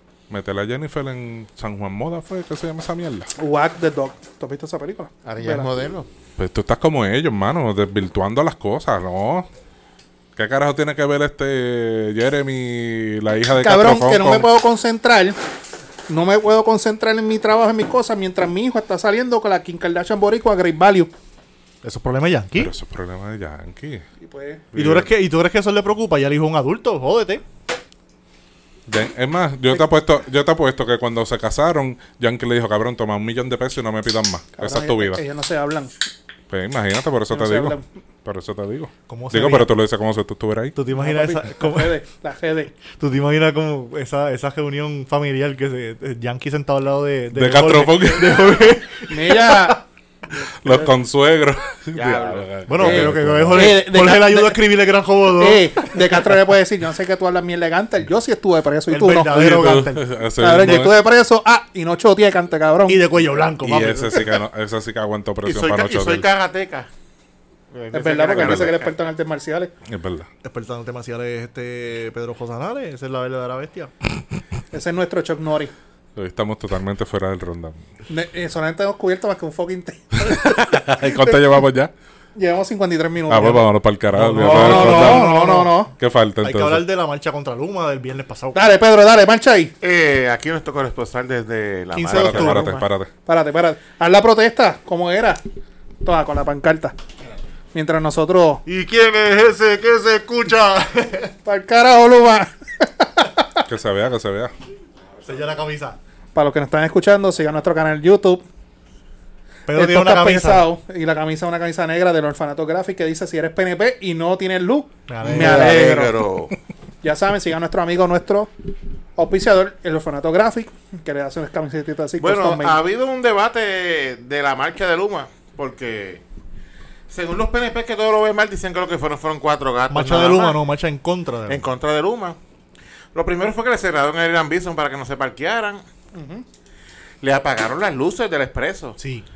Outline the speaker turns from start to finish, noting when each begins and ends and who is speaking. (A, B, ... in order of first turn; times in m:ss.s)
0:00.3-0:03.3 A
0:03.4-0:05.7 B
0:05.2-0:06.1 C
0:06.4-0:09.5 A
0:10.4-0:14.5 A
0:13.5-0:15.4 B
0:16.1-0:21.1 B
0:21.8-0:22.7 D
0:22.6-0:24.1 A
0:24.2-0:24.6 B
0:24.7-0:25.1 A
0:24.8-0:27.4 D
0:28.9-0:35.2 A
0:34.6-0:35.9 B
0:36.5-0:40.8 A
0:37.3-0:37.8 B
0:39.1-0:39.7 D
0:40.8-0:42.0 D
0:41.0-0:42.7 B
0:42.9-0:49.8 D
0:47.3-0:48.6 A
0:49.1-0:49.8 B
0:50.6-0:53.8 A
0:52.0-0:52.5 C
0:52.7-0:56.0 D
0:52.8-0:54.6 B
0:55.4-0:59.5 B
0:58.9-1:00.9 D
0:59.3-1:01.0 A
1:00.4-1:03.0 B
1:02.9-1:04.3 D
1:03.6-1:06.3 A
1:05.4-1:06.9 C
1:07.7-1:08.9 C
1:07.9-1:09.7 B
1:08.4-1:08.7 A
1:09.8-1:10.3 A
1:10.4-1:13.9 D
1:14.7-1:15.7 B
1:16.2-1:17.8 A
1:18.1-1:21.4 B
1:20.3-1:21.9 A
1:22.4-1:23.7 B
1:23.3-1:25.4 A
1:24.1-1:25.7 D
1:24.4-1:25.9 B
1:26.0-1:26.8 A
1:26.4-1:28.6 D
1:28.5-1:29.7 B
1:29.8-1:32.8 C
1:31.9-1:32.8 D
1:32.1-1:33.1 A
1:33.3-1:35.4 B
1:36.0-1:37.0 B
1:37.7-1:38.6 B
1:38.7-1:41.3 D
1:41.4-1:43.6 B
1:43.7-1:44.5 A
1:45.2-1:46.0 D
1:46.4-1:48.4 B
1:49.7-1:50.7 D
1:49.7-1:56.2 B
1:55.1-1:56.0 D
1:55.2-1:56.6 C
1:57.0-1:58.5 B
1:59.2-2:02.8 B
2:02.2-2:06.2 C
2:07.1-2:10.6 C
2:09.9-2:11.7 D
2:11.5-2:12.4 C
2:13.1-2:15.8 C
2:16.1-2:16.4 B
2:17.2-2:19.0 C
2:19.0-2:19.2 D